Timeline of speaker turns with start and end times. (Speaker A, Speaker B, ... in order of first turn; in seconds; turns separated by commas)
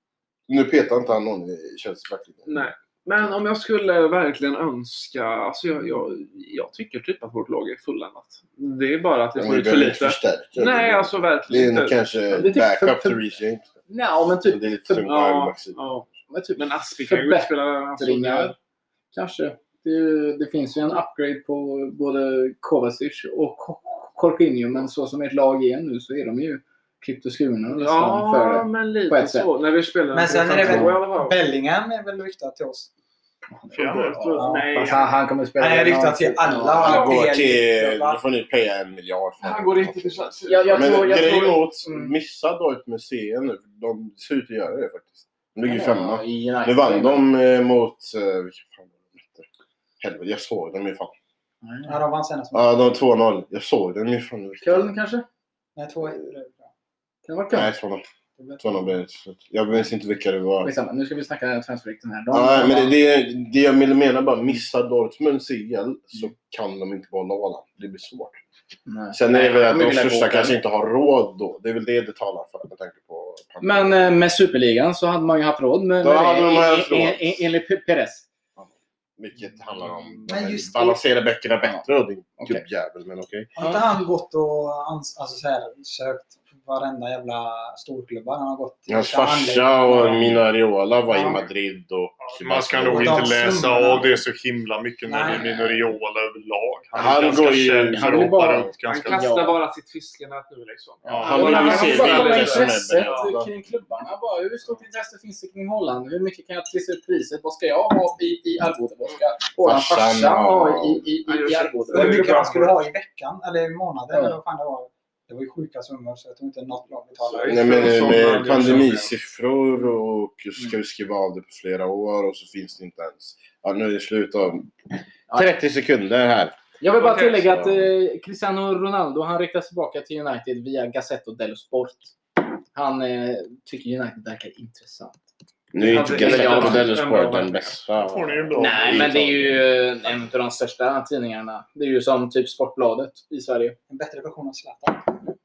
Speaker A: 0.5-2.5, Speaker B: 2.5-12.0, Speaker A: 9.3-13.7, Speaker C: 12.3-13.2, Speaker C: 13.9-15.2, Speaker A: 14.4-15.9, Speaker B: 15.0-18.6, Speaker C: 16.3-18.6, Speaker C: 19.1-29.5, Speaker B: 27.7-31.4, Speaker D: 30.1-32.9, Speaker C: 30.6-30.9, Speaker C: 33.6-37.1, Speaker B: 33.7-35.1, Speaker E: 33.7-34.4, Speaker D: 34.4-34.9, Speaker D: 35.6-38.2, Speaker A: 36.8-49.5, Speaker B: 36.8-37.2, Speaker B: 39.4-41.4, Speaker C: 40.5-42.1, Speaker C: 45.6-47.3, Speaker A: 50.0-51.1, Speaker C: 51.6-52.0, Speaker D: 51.9-52.9, Speaker A: 52.5-54.9, Speaker C: 54.6-55.3, Speaker D: 55.8-56.6, Speaker C: 57.2-57.7, Speaker A: 57.5-58.0, Speaker D: 58.4-58.9, Speaker A: 58.6-60.7, Speaker C: 60.6-62.9, Speaker A: 62.3-68.4, Speaker C: 68.9-70.6, Speaker A: 69.1-74.2, Speaker C: 73.6-78.3, Speaker A: 76.0-77.5, Speaker A: 78.6-83.5, Speaker D: 80.3-81.0, Speaker C: 82.4-82.6, Speaker C: 83.6-83.8, Speaker D: 83.6-90.4, Speaker A: 88.9-94.0, Speaker E: 89.9-90.4, Speaker D: 91.1-91.4, Speaker E: 92.2-99.3, Speaker D: 92.8-94.1, Speaker D: 95.1-95.8, Speaker A: 96.9-98.6, Speaker C: 97.9-99.6, Speaker B: 98.8-102.7, Speaker E: 101.1-103.3, Speaker A: 101.1-103.5, Speaker C: 101.1-112.4, Speaker A: 109.6-111.1, Speaker B: 111.3-112.8, Speaker D: 111.9-118.2, Speaker C: 114.1-114.4, Speaker B: 117.3-119.1, Speaker A: 117.4-124.7, Speaker A: 125.3-126.6, Speaker C: 126.8-132.1, Speaker B: 126.9-127.5, Speaker A: 127.4-127.9, Speaker C: 132.7-135.2, Speaker A: 135.7-139.7, Speaker B: 135.8-137.8, Speaker C: 136.1-136.9, Speaker E: 138.0-139.2, Speaker C: 138.6-143.8, Speaker D: 143.9-145.1